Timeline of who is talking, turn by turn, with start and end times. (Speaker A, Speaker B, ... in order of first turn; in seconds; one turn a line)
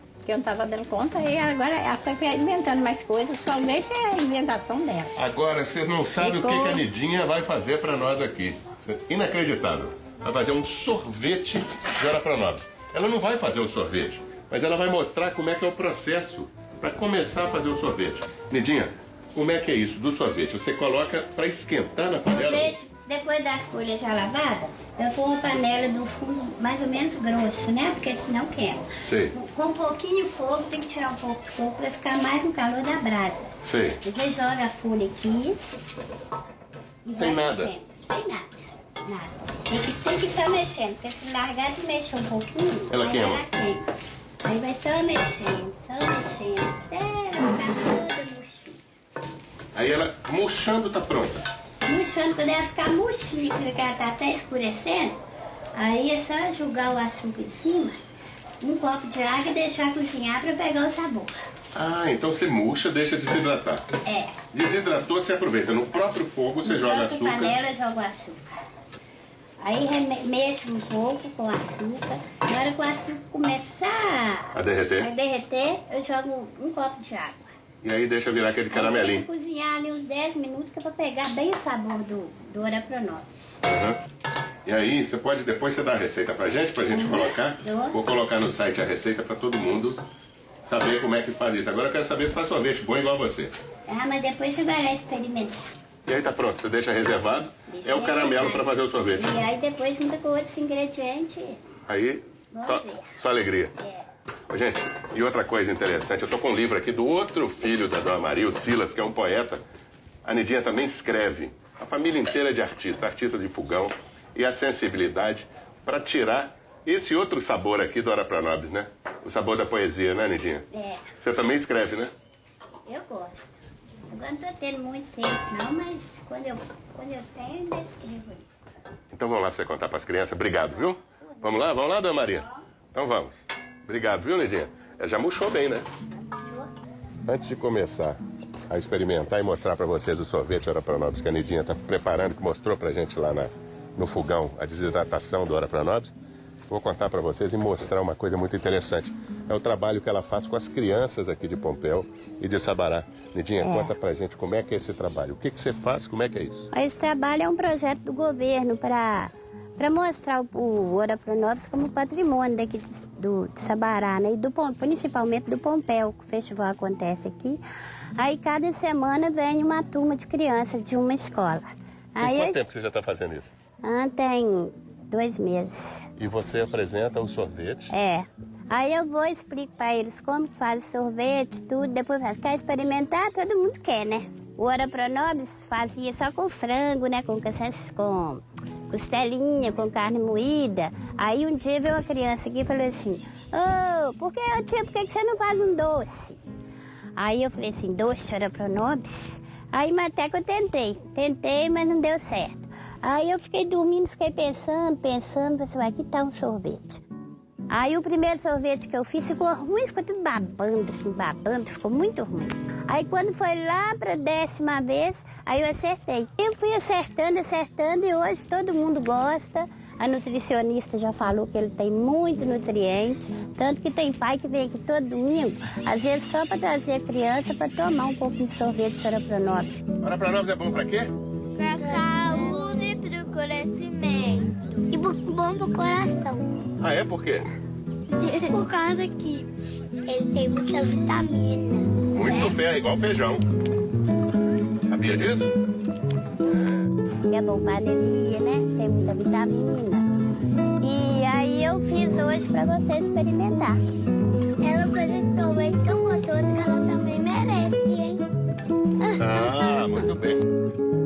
Speaker A: 0.2-5.1
Speaker B: 5.2-22.8
Speaker A: 6.2-6.8
Speaker C: 22.3-33.5
Speaker B: 29.0-29.3
Speaker B: 33.6-34.0
Speaker C: 34.0-35.5
Speaker C: 37.0-38.5
Speaker B: 37.1-37.7
Speaker C: 39.0-43.8
Speaker B: 42.9-43.4
Speaker C: 44.4-48.8
Speaker B: 49.7-51.5
Speaker C: 51.9-55.2
Speaker C: 55.7-58.0
Speaker C: 58.6-61.3
Speaker B: 61.7-63.9
Speaker C: 64.0-64.4
Speaker B: 64.5-67.6
Speaker C: 66.6-68.4
Speaker C: 69.6-77.5
Speaker B: 74.5-75.1
Speaker B: 77.8-79.3
Speaker C: 78.7-83.3
Speaker B: 83.6-84.0
Speaker B: 84.6-90.0
Speaker C: 86.9-88.0
Speaker B: 90.6-93.5
Speaker C: 93.9-95.6
Speaker B: 96.0-99.3
Speaker C: 97.7-101.6
Speaker B: 101.9-103.7
Speaker C: 102.5-103.1
Speaker C: 103.8-104.0
Speaker B: 104.5-109.6
Speaker B: 110.2-120.7
Speaker C: 120.7-121.1
Speaker B: 121.2-122.1
Speaker C: 122.9-123.5
Speaker C: 124.1-128.5
Speaker B: 129.1-135.9
Speaker C: 136.2-136.7
Speaker B: 137.3-146.1
Speaker B: 146.7-156.7
Speaker C: 153.6-153.9
Speaker C: 156.7-167.6
Speaker C: 168.2-172.7
Speaker B: 172.2-173.5
Speaker C: 173.8-176.1
Speaker B: 176.2-177.9
Speaker C: 177.9-196.4
Speaker C: 197.2-207.0
Speaker C: 207.7-229.8
Speaker B: 230.0-231.1
Speaker D: 231.6-236.4
Speaker C: 231.7-233.0
Speaker C: 235.1-236.2
Speaker B: 236.8-237.5
Speaker D: 238.5-239.5
Speaker D: 240.1-242.4
Speaker C: 240.3-241.0
Speaker B: 242.1-243.4
Speaker B: 244.9-245.5
Speaker B: 246.5-246.8
Speaker C: 247.3-250.1
Speaker C: 250.8-253.8
Speaker D: 254.6-258.2
Speaker C: 255.5-255.9
Speaker C: 256.5-257.2
Speaker C: 259.0-260.1
Speaker B: 259.2-260.4